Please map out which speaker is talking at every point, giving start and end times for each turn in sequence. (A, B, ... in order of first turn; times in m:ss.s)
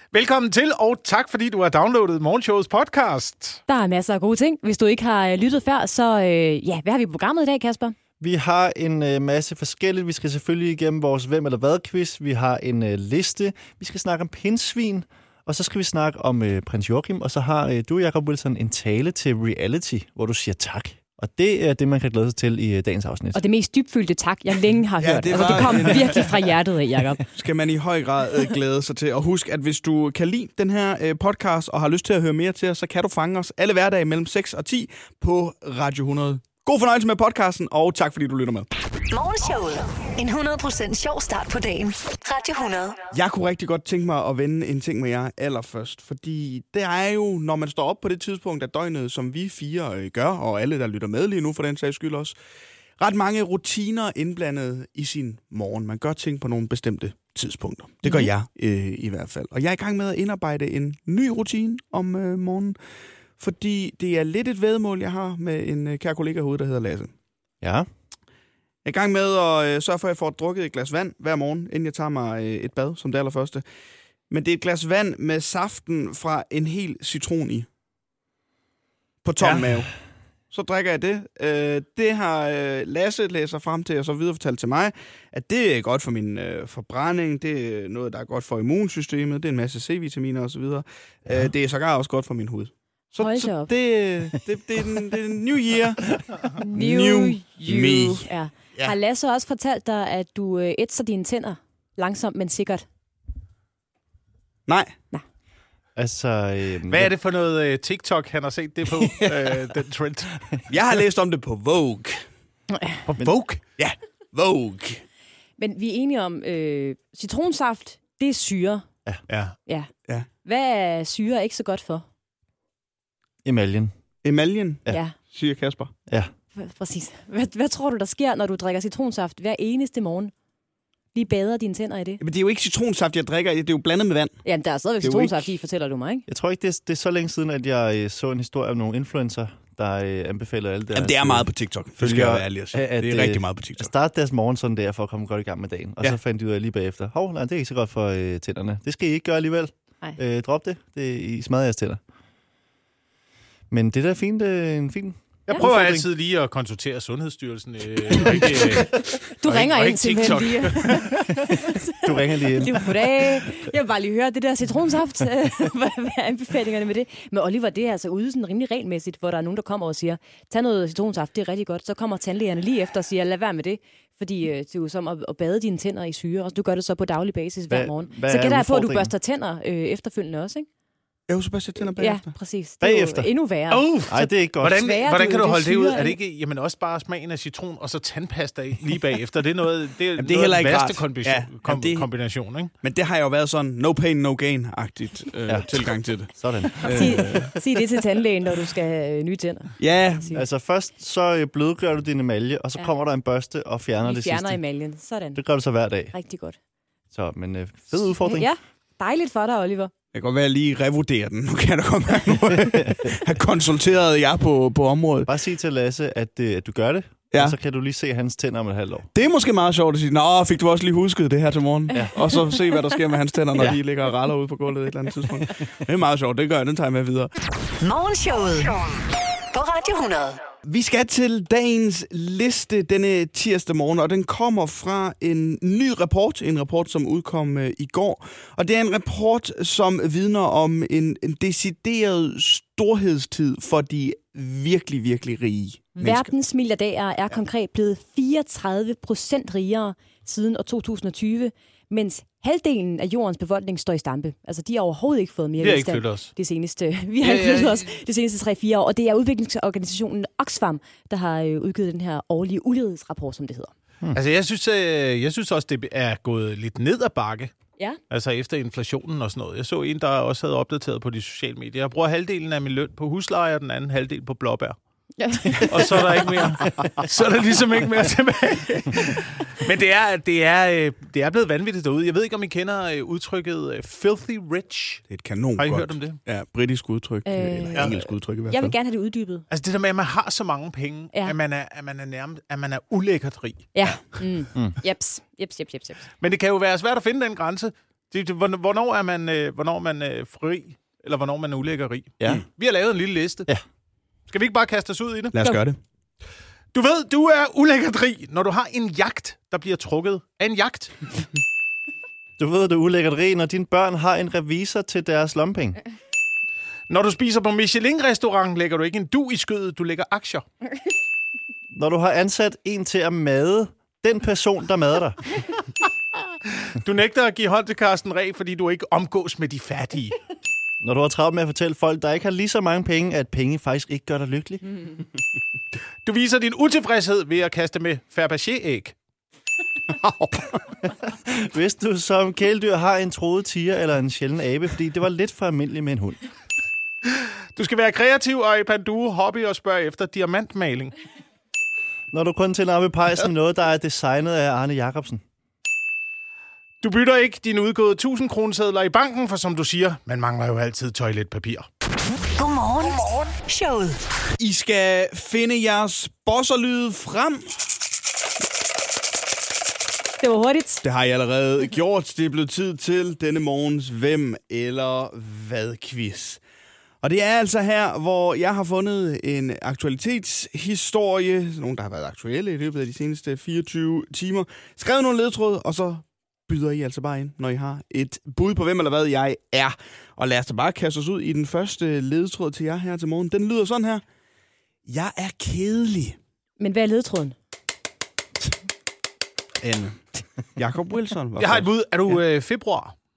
0:00.1-0:03.6 A
0:03.7-0:07.9 B
0:08.2-0:23.4 C
0:23.3-0:27.2 B
0:25.0-0:26.3 D
0:27.3-0:38.7 D
0:39.1-0:43.1 E
0:43.1-0:52.3 D
0:53.0-1:02.8 D
0:58.0-0:58.3 B
1:03.4-1:07.1 D
1:07.6-1:07.9 C
1:08.8-1:13.6 D
1:14.3-1:17.7 D
1:19.2-1:19.9 D
1:19.4-1:19.7 C
1:20.5-1:38.9 D
1:33.2-1:33.7 B
1:36.6-1:42.8 B
1:44.7-1:44.9 D
1:46.0-1:47.1 C
1:46.9-1:50.3 A
1:48.9-1:49.6 C
1:50.7-1:52.2 D
1:52.7-1:53.0 B
1:53.0-1:53.6 A
1:53.8-1:55.0 D
1:55.6-1:58.8 B
1:59.3-1:59.5 A
2:00.4-2:02.0 B
2:03.4-2:03.9 C
2:04.2-2:05.9 D
2:04.9-2:05.1 B
2:06.5-2:10.3 B
2:11.1-2:12.2 B
2:12.2-2:14.4 D
2:14.4-2:16.2 B
2:15.0-2:15.4 D
2:16.3-2:21.5 C
2:20.9-2:23.9 D
2:22.0-2:32.0 C
2:33.7-2:36.1 C
2:35.4-2:41.2 A
2:39.3-3:00.7 B
2:41.4-2:43.5 C
2:57.7-2:59.1 C
3:01.3-3:02.3 D
3:02.0-3:06.2 B
3:02.8-3:03.3 C
3:03.7-3:12.7 A
3:04.1-3:04.8 C
3:10.2-3:12.1 D
3:12.8-3:17.5 D
3:16.3-3:17.5 C
3:16.8-3:20.4 B
3:19.8-3:20.3 D
3:20.3-3:24.6 C
3:24.0-3:25.4 B
3:25.3-3:26.1 C
3:26.1-3:26.6 B
3:27.1-3:28.5 C
3:28.2-3:29.9 B
3:30.1-3:35.3 D
3:35.2-3:39.1 C
3:39.1-3:47.3 D
3:47.8-3:48.8 E
3:49.5-3:50.4 E
3:50.6-4:06.3 D
4:06.0-4:23.7 B
4:15.6-4:16.3 A
4:17.2-4:17.8 A
4:24.1-4:27.5 A
4:28.1-4:34.8 A
4:35.2-4:35.8 B
4:35.5-4:45.0 A
4:45.1-4:48.7 D
4:45.6-4:46.2 A
4:47.2-4:49.4 B
4:49.5-4:53.8 A
4:53.7-4:56.1 B
4:56.2-5:03.5 A
5:02.2-5:02.4 C
5:04.3-5:05.4 A
5:05.3-5:05.8 D
5:06.7-5:11.0 A
5:12.4-5:15.8 C
5:16.9-5:20.4 A
5:21.7-5:25.2 C
5:26.5-5:30.2 A
5:30.8-5:34.8 C
5:36.0-5:38.9 A
5:39.9-5:40.5 A
5:40.9-5:46.2 C
5:47.0-5:50.9 A
5:52.1-5:55.2 C
5:56.8-6:01.7 A
6:02.4-6:04.0 E
6:04.4-6:07.6 D
6:10.2-6:10.8 B
6:10.8-6:16.4 D
6:17.0-6:34.0 D
6:34.8-6:36.2 D
6:36.6-6:37.4 B
6:39.6-6:40.0 D
6:40.6-6:41.7 D
6:41.4-6:42.9 A